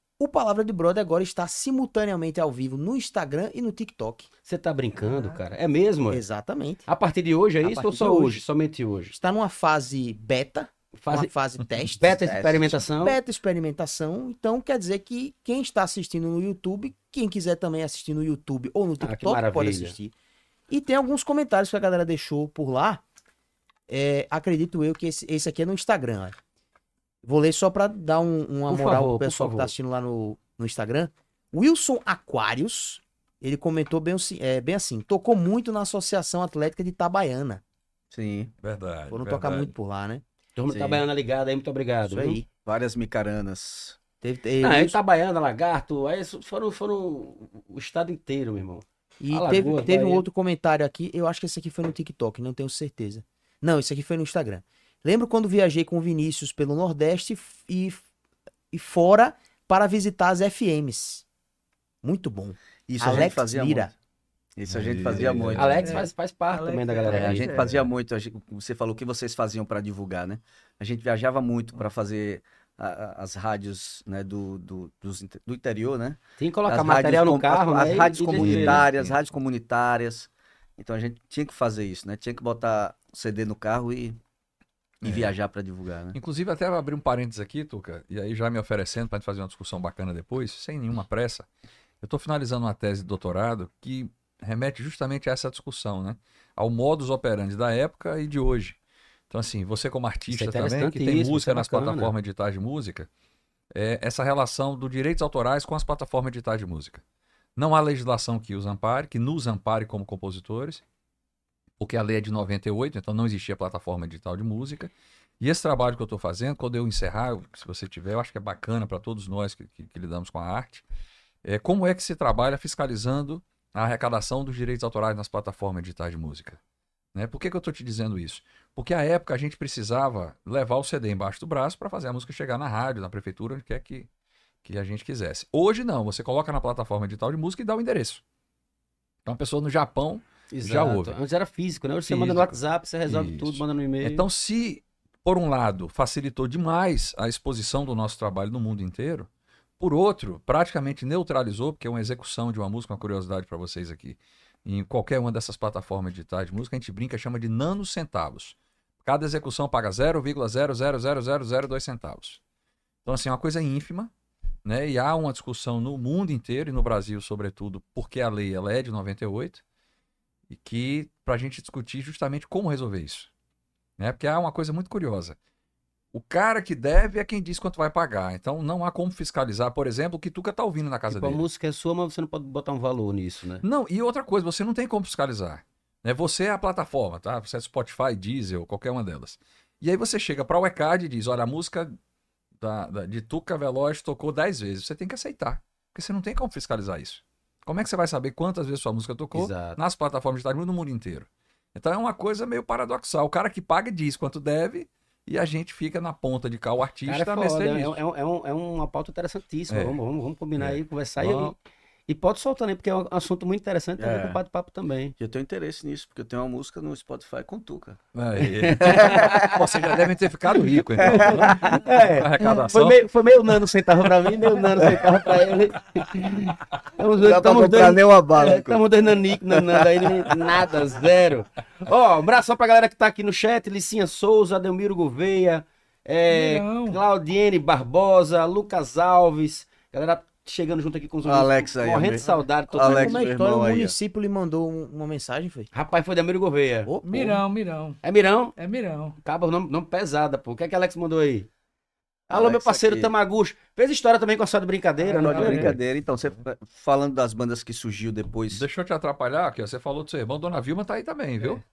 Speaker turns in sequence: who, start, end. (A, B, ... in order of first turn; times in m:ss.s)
0:00.2-0:04.3 A
0:04.5-0:06.2 B
0:05.0-0:05.4 C
0:06.1-0:06.9 A
0:06.9-0:09.2 B
0:07.6-0:08.4 A
0:09.1-0:20.1 A
0:11.0-0:11.3 B
0:11.9-0:13.2 B
0:19.0-0:20.0 B
0:20.7-0:23.0 A
0:23.9-0:26.4 A
0:27.2-0:37.6 A
0:28.7-0:29.7 B
0:38.1-0:38.5 D
0:38.6-0:39.7 E
0:39.1-0:40.2 A
0:40.6-0:42.4 B
0:40.7-0:41.0 D
0:42.1-0:42.5 A
0:42.6-0:44.0 D
0:44.2-0:45.0 A
0:44.6-0:50.3 B
0:49.2-0:58.0 A
0:58.7-1:01.2 A
1:02.0-1:03.9 A
1:02.9-1:03.9 D
1:04.6-1:06.0 D
1:04.7-1:05.9 E
1:05.5-1:07.5 B
1:05.8-1:07.7 C
1:07.1-1:24.2 D
1:16.4-1:18.9 B
1:18.3-1:19.2 E
1:25.0-1:25.4 E
1:25.0-1:26.2 D
1:26.1-1:31.5 E
1:32.0-1:38.8 E
1:39.3-1:43.1 E
1:40.3-1:42.1 B
1:43.7-1:47.0 E
1:47.6-1:50.8 E
1:51.8-2:00.8 E
2:01.4-2:06.6 E
2:07.1-2:14.1 E
2:14.6-2:18.2 E
2:19.2-2:21.2 E
2:20.5-2:24.3 B
2:22.1-2:42.4 E
2:43.0-2:44.1 E
2:44.6-2:49.6 E
2:50.5-2:53.3 E
2:54.0-2:55.4 E
2:56.1-3:01.4 E
3:01.1-3:03.6 B
3:03.6-3:12.0 E
3:12.6-3:28.0 E
3:19.3-3:19.8 B
3:27.1-3:35.2 B
3:29.7-3:30.0 E
3:30.6-3:31.6 E
3:34.0-3:34.4 D
3:35.2-3:38.0 D
3:38.1-3:43.1 E
3:38.4-3:39.6 B
3:38.8-3:39.9 D
3:41.0-4:03.3 B
3:41.0-3:41.9 D
3:44.9-3:45.4 D
3:47.2-3:50.4 D
3:56.3-3:57.0 C
4:01.2-4:04.0 D
4:02.8-4:05.7 A
4:05.7-4:06.9 B
4:06.9-4:07.4 A
4:07.0-4:08.0 C
4:08.0-4:08.6 B
4:08.6-4:09.2 C
4:09.2-4:11.5 B
4:12.3-4:13.1 D
4:12.3-4:15.8 B
4:15.0-4:15.8 C
4:15.2-4:18.7 D
4:18.5-4:21.6 E